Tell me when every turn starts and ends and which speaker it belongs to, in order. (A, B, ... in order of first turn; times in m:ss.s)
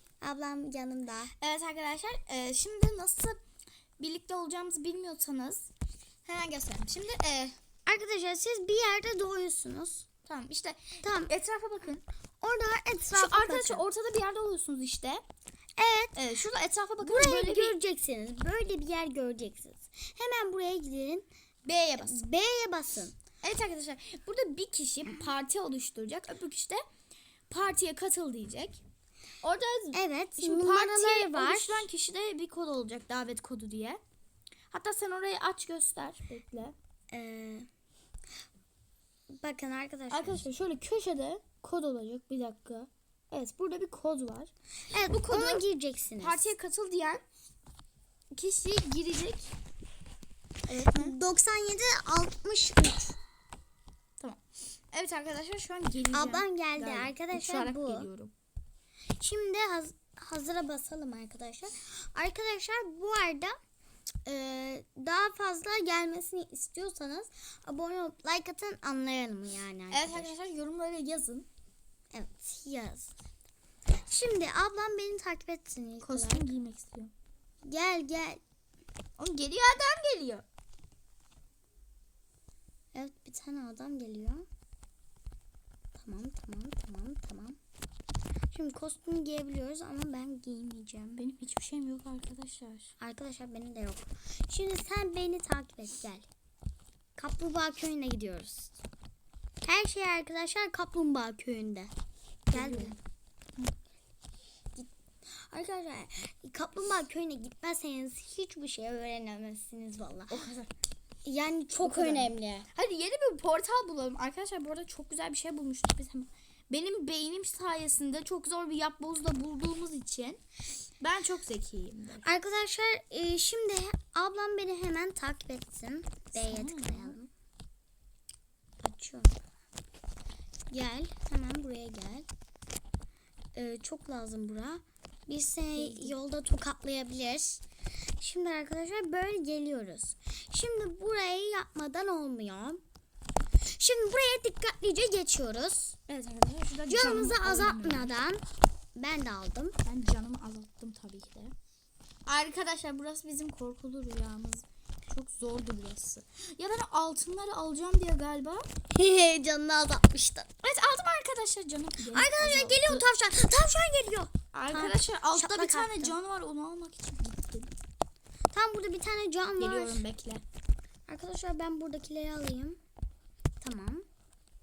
0:00.2-0:01.3 A
0:01.4-0:03.4 B
0:04.0-0:05.7 B
0:06.2-0:07.5 B
0:07.9-0:10.0 A
0:10.2-0:12.0 B
0:11.0-0:11.3 A
0:12.4-0:13.8 A
0:13.1-0:15.2 B
0:15.8-0:16.1 A
0:16.1-0:17.8 B
0:17.0-0:21.3 A
0:21.6-0:22.2 B
0:22.0-0:23.1 A
0:23.4-0:26.8 B
0:27.5-0:28.8 B
0:29.4-0:34.0 B
0:29.9-0:31.9 A
0:34.7-0:36.7 B
0:37.1-0:37.7 A
0:39.4-0:40.5 A
0:40.1-0:44.5 B
0:44.9-0:46.5 A
0:45.1-0:45.6 B
0:46.2-0:47.2 B
0:48.3-0:49.5 B
0:50.7-0:51.2 B
0:50.9-0:53.2 A
0:54.9-0:58.3 B
0:56.1-0:58.1 A
0:59.2-1:03.6 A
1:04.2-1:10.3 A
1:09.9-1:11.5 B
1:12.1-1:13.1 A
1:14.0-1:16.5 A
1:16.0-1:17.1 B
1:17.6-1:18.4 A
1:19.2-1:20.4 B
1:22.9-1:24.5 A
1:25.9-1:27.6 A
1:28.5-1:31.2 A
1:31.2-1:32.9 B
1:33.0-1:36.3 A
1:37.2-1:38.7 A
1:39.6-1:41.9 A
1:42.5-1:43.0 B
1:42.5-1:43.0 A
1:44.8-1:50.4 A
1:50.3-1:50.7 B
1:51.2-1:52.7 A
1:51.8-2:00.4 B
2:01.0-2:02.2 B
2:02.2-2:07.3 A
2:06.3-2:07.2 B
2:08.8-2:09.4 A
2:10.7-2:12.3 A
2:13.5-2:17.6 A
2:15.7-2:16.1 B
2:18.2-2:22.8 A
2:23.6-2:26.0 A
2:26.1-2:28.1 B
2:26.9-2:28.4 A
2:28.9-2:29.8 A
2:29.8-2:31.5 B
2:32.2-2:38.7 B
2:38.9-2:40.5 A
2:40.6-2:43.0 B
2:42.1-2:46.2 A
2:44.5-2:47.7 B
2:48.5-2:50.0 A
2:49.6-2:50.4 B
2:51.1-2:52.8 A
2:53.6-2:54.0 A